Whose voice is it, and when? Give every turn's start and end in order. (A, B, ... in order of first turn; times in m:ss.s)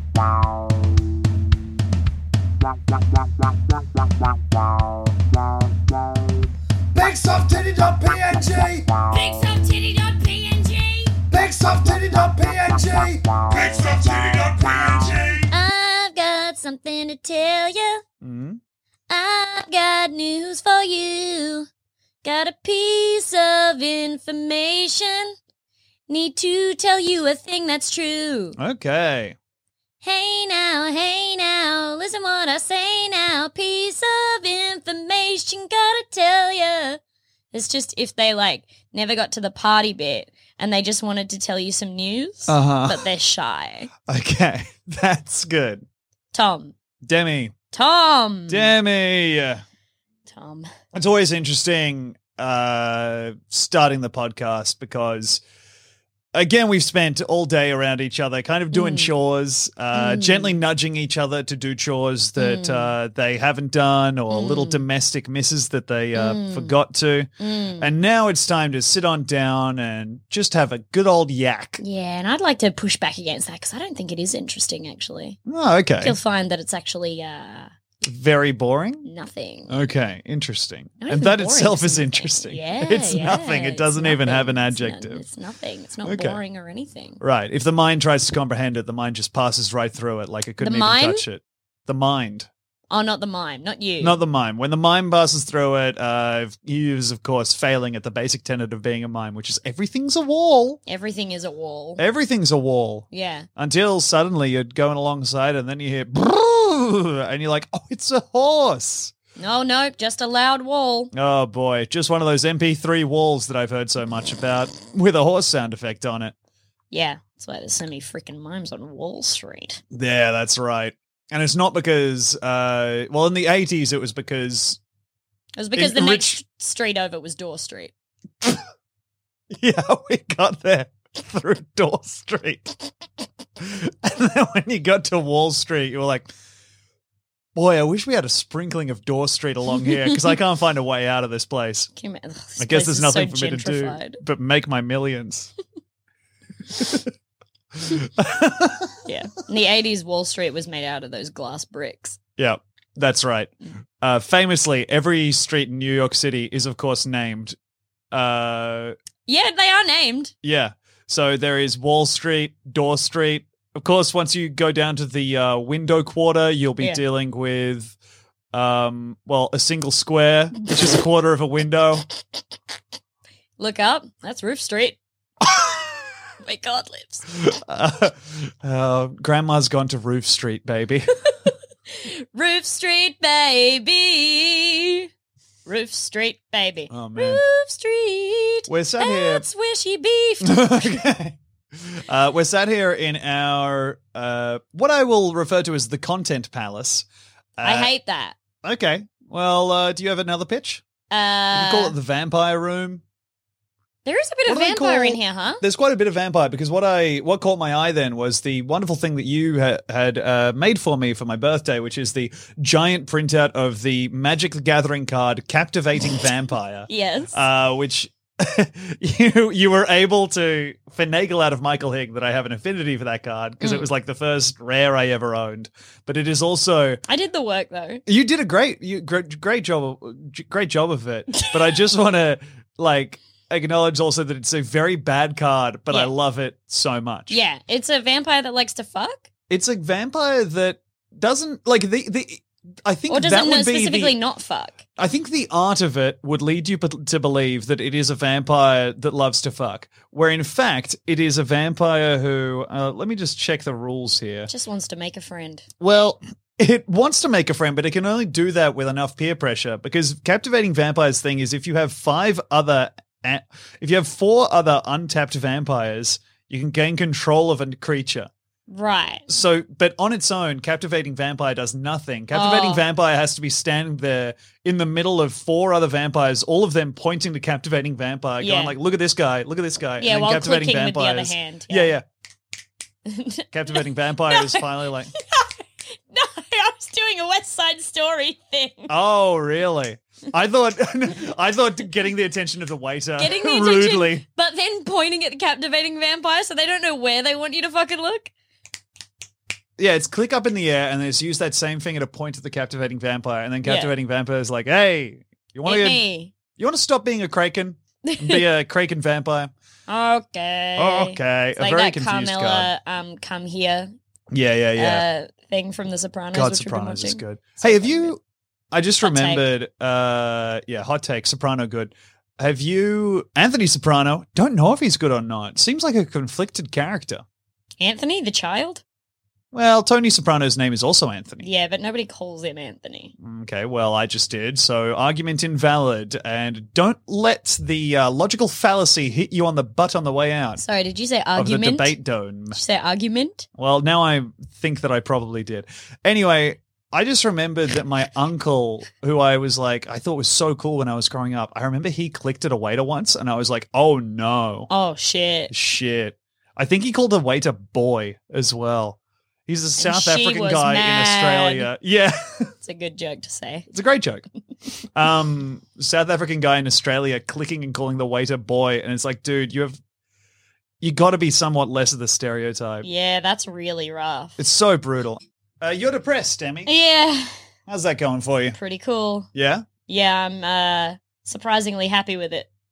0:06.9-0:08.9 A
0:09.0-0:11.2 B
0:11.3-0:15.5 A
0:15.5-0:18.0 B
0:18.2-0:18.6 C
0:19.1-0:21.7 B
0:22.2-0:25.3 B
0:26.1-0:28.6 B
0:28.6-0:29.4 C
0:30.0-0:37.0 B
0:37.5-0:43.9 B
0:42.5-0:43.0 C
0:44.1-0:45.8 C
0:46.3-0:46.7 B
0:47.0-0:47.5 C
0:47.7-0:48.7 B
0:48.5-0:49.6 C
0:50.3-0:50.7 B
0:50.9-0:55.4 C
0:56.3-1:07.3 C
0:58.7-0:59.1 B
0:59.9-1:00.6 B
1:02.4-1:02.9 B
1:04.3-1:04.8 B
1:06.1-1:06.7 B
1:07.4-1:07.9 B
1:07.8-1:11.8 C
1:11.8-1:15.4 B
1:15.5-1:16.2 C
1:16.0-1:17.7 B
1:18.0-1:19.1 C
1:19.0-1:19.7 B
1:19.7-1:25.2 C
1:21.0-1:27.2 B
1:26.0-1:26.4 C
1:27.2-1:32.5 C
1:30.6-1:31.2 B
1:32.9-1:34.2 B
1:34.0-1:40.8 C
1:40.8-1:42.0 B
1:42.0-1:49.1 C
1:43.1-1:43.5 B
1:49.4-1:51.1 B
1:51.1-1:56.3 C
1:56.9-1:59.8 B
1:59.9-2:04.8 C
2:05.6-2:07.9 B
2:05.8-2:06.4 C
2:09.5-2:12.8 C
2:13.6-2:16.3 C
2:17.5-2:21.9 C
2:19.9-2:20.3 B
2:22.0-2:24.2 B
2:22.6-2:25.5 C
2:26.7-2:27.1 C
2:27.8-2:29.0 C
2:29.0-2:32.2 B
2:32.4-2:37.6 C
2:38.1-2:39.0 C
2:39.3-2:40.3 B
2:40.4-2:48.0 C
2:48.5-2:52.0 C
2:53.6-2:55.0 B
2:55.4-2:55.9 C
2:56.4-2:57.3 B
2:57.3-3:01.1 C
3:01.5-3:05.1 B
3:05.6-3:11.0 B
3:06.9-3:07.4 C
3:08.7-3:09.4 C
3:10.4-3:17.0 C
3:17.6-3:17.9 C
3:17.6-3:18.4 B
3:18.6-3:20.8 C
3:21.1-3:21.9 B
3:21.5-3:23.0 C
3:24.0-3:25.6 B
3:24.5-3:47.0 C
3:36.9-3:37.4 B
3:43.6-3:43.8 B
3:47.1-3:48.0 B
3:48.0-3:57.4 C
3:57.3-3:59.2 B
3:59.5-4:04.2 C
4:03.1-4:04.8 B
4:05.0-4:14.5 C
4:14.5-4:15.6 B
4:15.8-4:28.3 C
4:28.7-4:29.2 B
4:29.3-4:42.0 C
4:32.3-4:32.8 B
4:38.4-4:38.7 B
4:40.0-4:41.9 B
4:43.0-4:43.8 B
4:43.5-4:45.1 C
4:44.3-4:48.9 B
4:48.9-4:54.2 C
4:53.2-4:58.3 B
4:59.8-5:06.0 C
5:03.6-5:03.9 B
5:05.6-5:06.3 B
5:06.5-5:09.5 C
5:08.0-5:08.4 B
5:09.9-5:13.9 B
5:10.8-5:12.7 C
5:14.3-5:15.0 C
5:14.8-5:18.1 B
5:16.3-5:18.2 C
5:18.7-5:27.2 C
5:19.0-5:19.4 B
5:27.8-5:28.8 B
5:29.5-5:31.5 C
5:31.4-5:33.1 B
5:33.2-5:40.6 C
5:40.6-5:41.9 B
5:41.3-5:42.6 C
5:42.5-5:43.4 B
5:43.6-5:54.7 C
5:54.7-5:55.5 B
5:55.5-6:02.5 C
5:59.8-6:01.7 B
6:02.6-6:03.7 B
6:03.7-6:04.2 C
6:04.9-6:09.8 C
6:10.8-6:12.9 C
6:12.8-6:14.4 B
6:14.4-6:16.7 C
6:16.6-6:17.3 B
6:17.7-6:18.6 C
6:18.5-6:19.3 B
6:19.3-6:19.6 C
6:19.9-6:22.5 B